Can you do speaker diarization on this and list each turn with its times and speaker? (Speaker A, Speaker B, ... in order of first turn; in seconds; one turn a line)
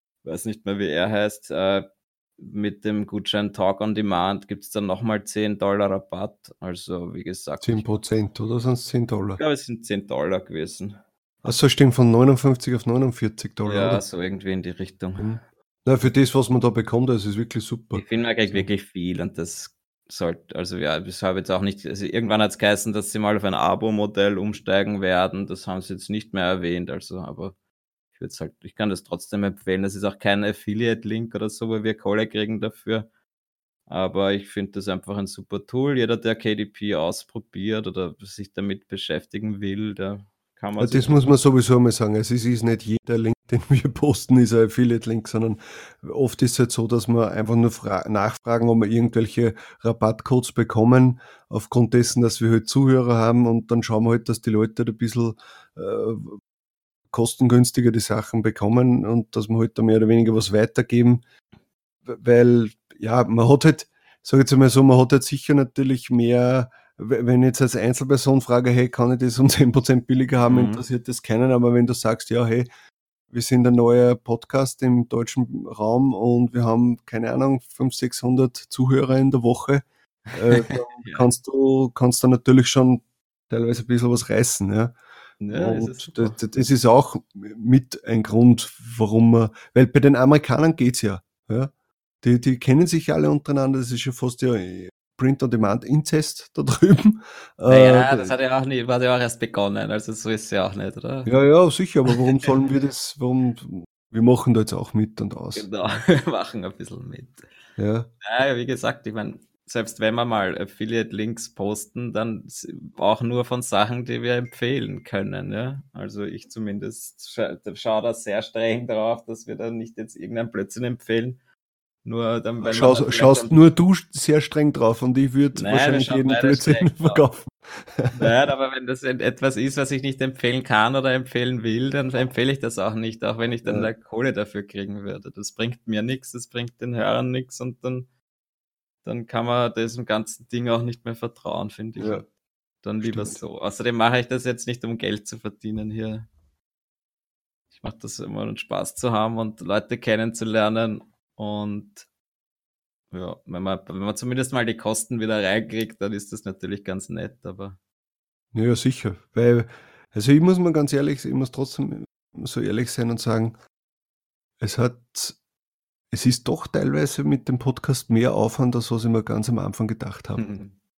Speaker A: 0.2-1.9
Speaker A: 2.4-7.9
Speaker B: 7.6-9.4
Speaker A: 9.4-11.0
Speaker B: 11.4-14.0
Speaker A: 13.6-15.4
Speaker B: 15.2-18.7
Speaker A: 17.9-27.6
Speaker A: 28.1-33.1
Speaker A: 33.9-41.3
Speaker B: 40.8-56.4
Speaker B: 57.1-61.2
Speaker B: 62.1-72.7
Speaker A: 70.4-70.8
Speaker B: 73.3-85.0
Speaker A: 80.4-81.3
Speaker A: 85.4-86.4
Speaker B: 85.5-98.3
Speaker A: 97.7-101.3
Speaker B: 101.2-105.7
Speaker A: 105.5-107.4
Speaker B: 107.8-108.1
Speaker A: 108.2-121.4
Speaker A: 122.0-123.7
Speaker B: 122.6-128.3
Speaker A: 125.5-127.2
Speaker A: 128.2-138.1
Speaker B: 133.6-133.9
Speaker A: 139.0-142.3
Speaker B: 142.0-142.2
Speaker A: 142.8-146.3
Speaker B: 143.0-143.4
Speaker A: 147.7-152.1
Speaker A: 153.1-157.8
Speaker B: 158.5-163.6
Speaker B: 164.6-165.4
Speaker B: 166.1-170.4
Speaker A: 170.4-170.8